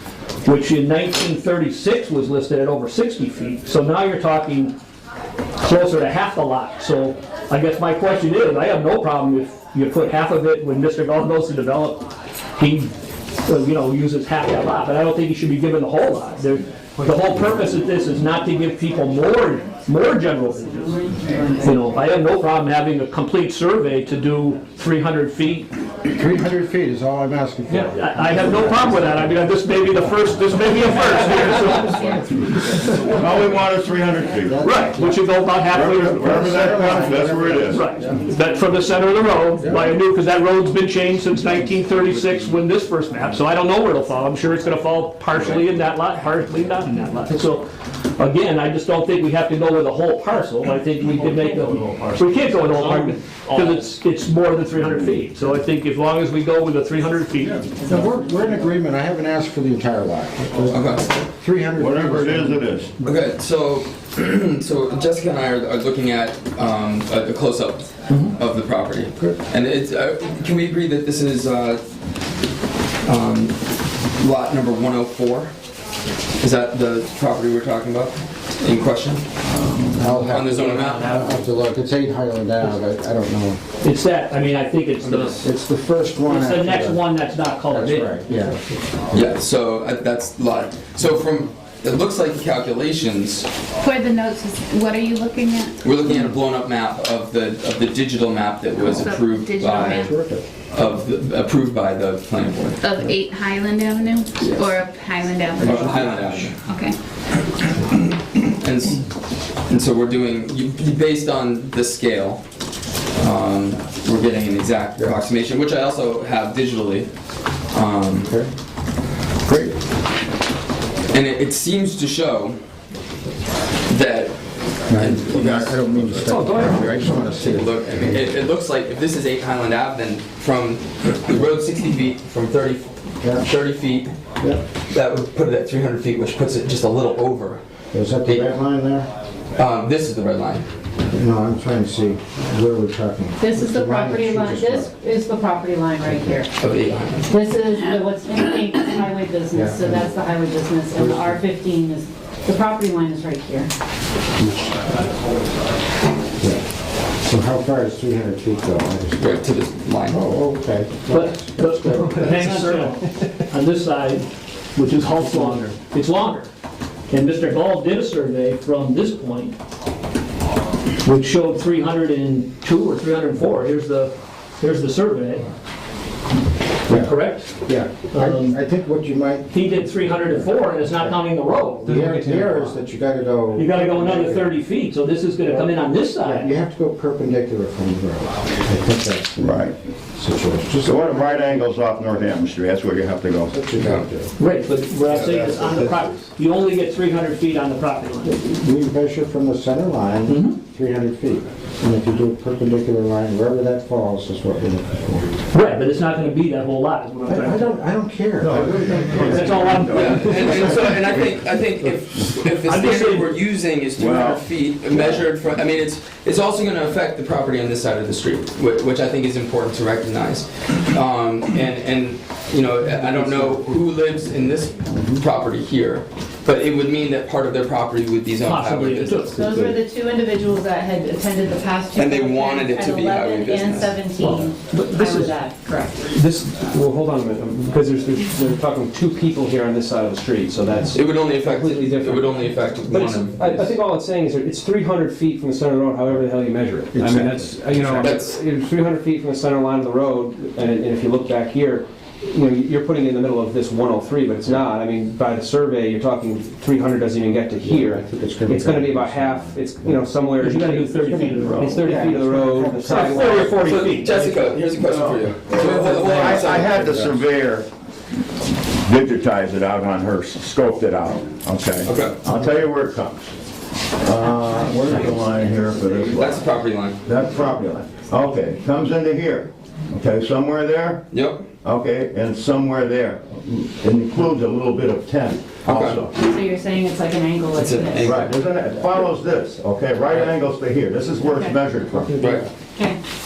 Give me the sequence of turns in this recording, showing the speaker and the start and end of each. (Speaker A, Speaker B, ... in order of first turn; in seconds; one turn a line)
Speaker A: 0.5-4.7
Speaker A: 5.6-12.9
Speaker A: 13.4-21.0
Speaker B: 20.9-21.7
Speaker A: 21.6-25.7
Speaker C: 26.1-29.3
Speaker A: 27.8-33.2
Speaker C: 32.0-32.9
Speaker D: 33.0-34.6
Speaker C: 34.4-35.2
Speaker A: 34.6-57.8
Speaker D: 35.7-37.9
Speaker C: 36.0-38.2
Speaker C: 39.6-39.9
Speaker E: 52.7-53.8
Speaker C: 57.9-62.8
Speaker F: 60.7-61.0
Speaker D: 61.8-62.9
Speaker F: 63.0-71.8
Speaker F: 73.0-73.6
Speaker F: 74.2-75.5
Speaker F: 76.4-79.3
Speaker C: 80.0-83.6
Speaker F: 80.0-81.4
Speaker A: 83.8-85.5
Speaker F: 85.0-85.4
Speaker C: 85.4-87.0
Speaker A: 86.2-88.2
Speaker C: 87.7-88.6
Speaker F: 89.1-93.5
Speaker G: 93.8-95.8
Speaker F: 95.8-100.1
Speaker G: 98.8-100.1
Speaker C: 99.6-100.5
Speaker F: 100.7-102.8
Speaker G: 102.8-107.0
Speaker F: 104.4-104.7
Speaker F: 105.6-106.6
Speaker F: 108.6-109.1
Speaker F: 109.7-112.4
Speaker F: 113.2-117.1
Speaker F: 117.7-118.3
Speaker C: 119.5-119.8
Speaker F: 121.1-122.6
Speaker F: 123.9-134.2
Speaker C: 124.9-128.2
Speaker A: 126.3-127.0
Speaker F: 134.9-137.6
Speaker C: 137.9-139.1
Speaker F: 139.6-140.7
Speaker C: 141.1-144.9
Speaker B: 143.4-146.5
Speaker F: 146.6-147.3
Speaker B: 147.3-153.7
Speaker C: 149.5-150.1
Speaker C: 150.9-151.4
Speaker C: 156.4-156.6
Speaker C: 157.2-159.4
Speaker F: 159.2-160.2
Speaker C: 160.1-162.5
Speaker A: 161.1-166.5
Speaker C: 165.2-165.6
Speaker A: 167.1-169.6
Speaker A: 171.0-175.4
Speaker A: 176.9-178.6
Speaker C: 176.9-181.2
Speaker A: 179.5-181.9
Speaker C: 181.8-184.5
Speaker E: 181.8-182.8
Speaker A: 183.6-186.5
Speaker C: 185.5-189.4
Speaker D: 189.4-189.7
Speaker C: 190.2-192.3
Speaker D: 190.8-193.6
Speaker C: 193.5-194.3
Speaker F: 193.8-194.1
Speaker A: 194.4-198.3
Speaker D: 195.1-195.9
Speaker C: 195.3-196.0
Speaker C: 198.2-205.3
Speaker A: 200.3-200.6
Speaker A: 205.5-207.7
Speaker C: 207.3-211.1
Speaker D: 208.4-210.1
Speaker A: 209.2-211.0
Speaker F: 209.9-229.5
Speaker A: 212.7-213.4
Speaker D: 214.0-215.2
Speaker C: 223.0-223.7
Speaker C: 224.9-225.2
Speaker A: 228.4-229.4
Speaker B: 229.4-236.1
Speaker F: 231.9-234.0
Speaker A: 234.2-235.3
Speaker E: 236.1-261.1
Speaker F: 240.9-243.7
Speaker C: 246.9-248.1
Speaker F: 247.9-248.4
Speaker C: 257.6-260.1
Speaker A: 260.4-261.9
Speaker C: 261.0-263.8
Speaker E: 261.6-264.4
Speaker A: 262.8-264.2
Speaker F: 263.5-266.8
Speaker E: 265.0-265.6
Speaker C: 265.5-267.2
Speaker D: 265.6-267.7
Speaker D: 268.8-273.3
Speaker F: 271.8-272.2
Speaker D: 274.0-276.5
Speaker F: 276.1-277.0
Speaker D: 277.1-281.0
Speaker F: 281.1-281.4
Speaker D: 281.6-286.2
Speaker F: 285.6-286.1
Speaker B: 286.2-288.2
Speaker F: 287.5-288.3
Speaker D: 288.0-292.3
Speaker B: 291.2-291.6
Speaker F: 292.2-292.5